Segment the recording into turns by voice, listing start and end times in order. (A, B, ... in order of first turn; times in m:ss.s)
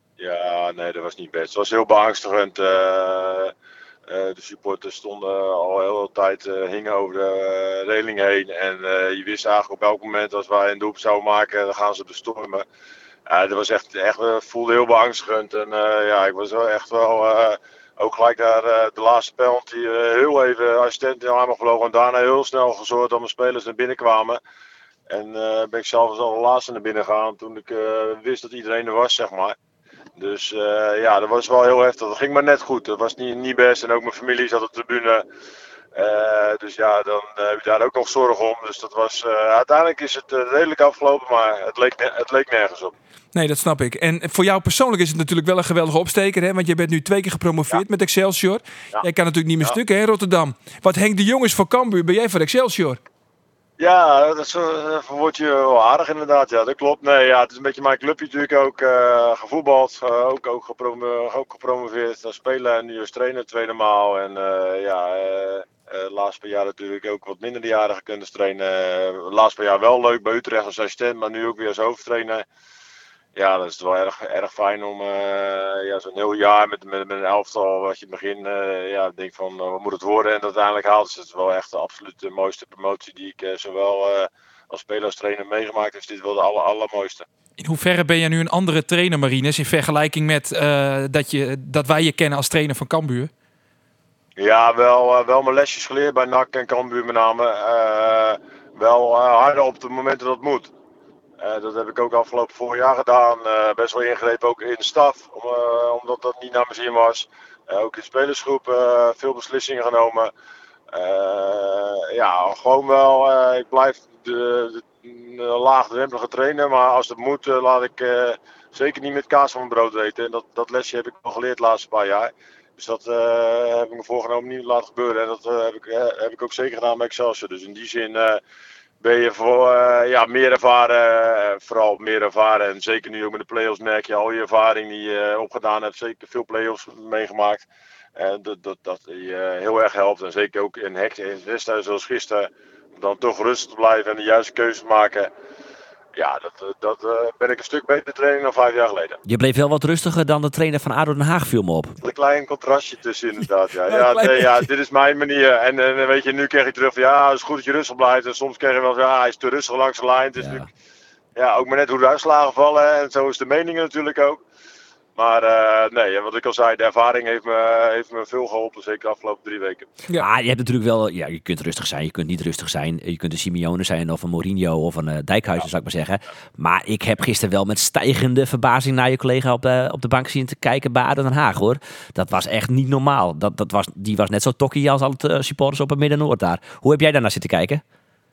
0:00.2-0:03.5 A
0:04.1-0:12.6 A
0:13.3-0:24.4 A
0:25.1-0:29.6 A
0:30.2-0:35.2 A
0:36.0-0:42.9 A
0:43.3-0:53.0 B
0:53.8-1:12.4 A
1:13.4-1:27.3 A
1:27.6-1:33.3 C
1:34.4-1:40.7 A
1:41.4-1:50.3 A
1:50.9-2:08.4 A
2:09.0-2:25.3 A
2:26.2-2:29.2 A
2:29.2-2:32.0 D
2:32.0-2:40.7 A
2:33.9-2:34.7 B
2:40.4-2:40.7 D
2:41.4-2:44.4 A
2:45.2-2:49.9 A
2:50.2-3:07.8 D